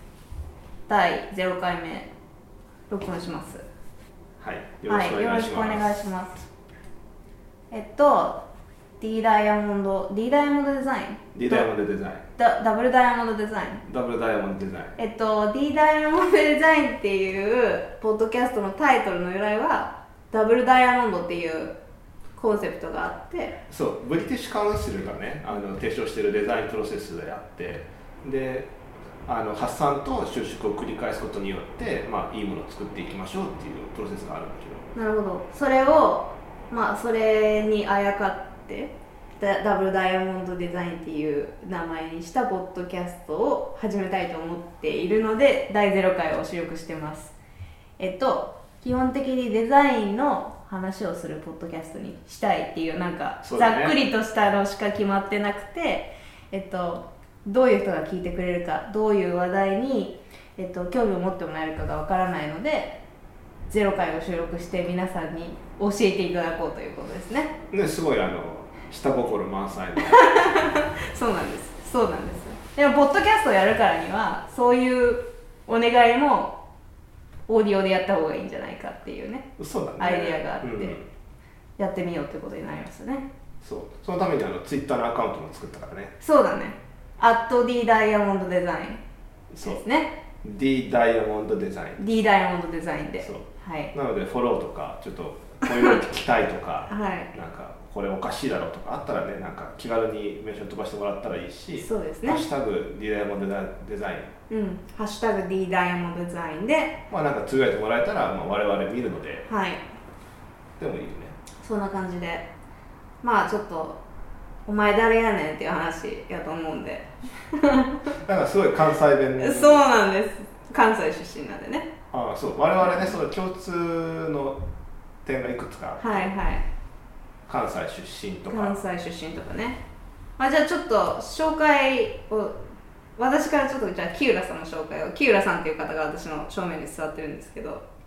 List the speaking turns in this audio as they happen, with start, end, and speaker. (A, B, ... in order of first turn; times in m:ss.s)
0:00.9-0:02.1 A
0:02.9-0:03.6 A
0:04.4-0:05.9 B
0:04.9-0:06.4 A
0:07.7-0:08.4 A
0:09.0-0:11.6 A
0:11.3-0:12.2 B
0:12.4-0:13.8 A
0:13.8-0:15.0 B
0:15.0-0:21.7 A
0:22.4-0:23.6 A
0:23.7-0:28.7 B
0:29.2-0:34.9 B
0:34.9-0:47.4 A
0:48.0-1:03.0 A
0:53.4-0:54.0 B
1:03.7-1:07.5 A
1:07.7-1:10.2 B
1:10.0-1:16.5 A
1:17.5-1:20.9 A
1:19.6-1:21.1 B
1:21.8-1:23.3 A
1:23.6-1:26.1 B
1:26.2-1:29.0 A
1:29.5-1:29.8 B
1:29.6-1:30.1 A
1:30.4-1:32.0 B
1:32.0-1:33.9 A
1:33.2-1:44.3 B
1:36.9-1:37.3 A
1:41.8-1:42.4 A
1:44.5-1:47.0 A
1:47.1-1:49.5 B
1:49.5-1:49.8 A
1:50.8-1:51.3 B
1:51.6-1:52.5 A
1:53.2-1:54.0 A
1:54.6-1:58.1 A
1:58.2-1:59.8 B
1:59.4-2:01.9 A
2:02.1-2:04.6 B
2:02.8-2:03.2 A
2:05.2-2:06.3 B
2:06.0-2:06.6 A
2:07.5-2:08.8 B
2:08.5-2:09.8 A
2:10.4-2:12.6 A
2:13.2-2:17.8 A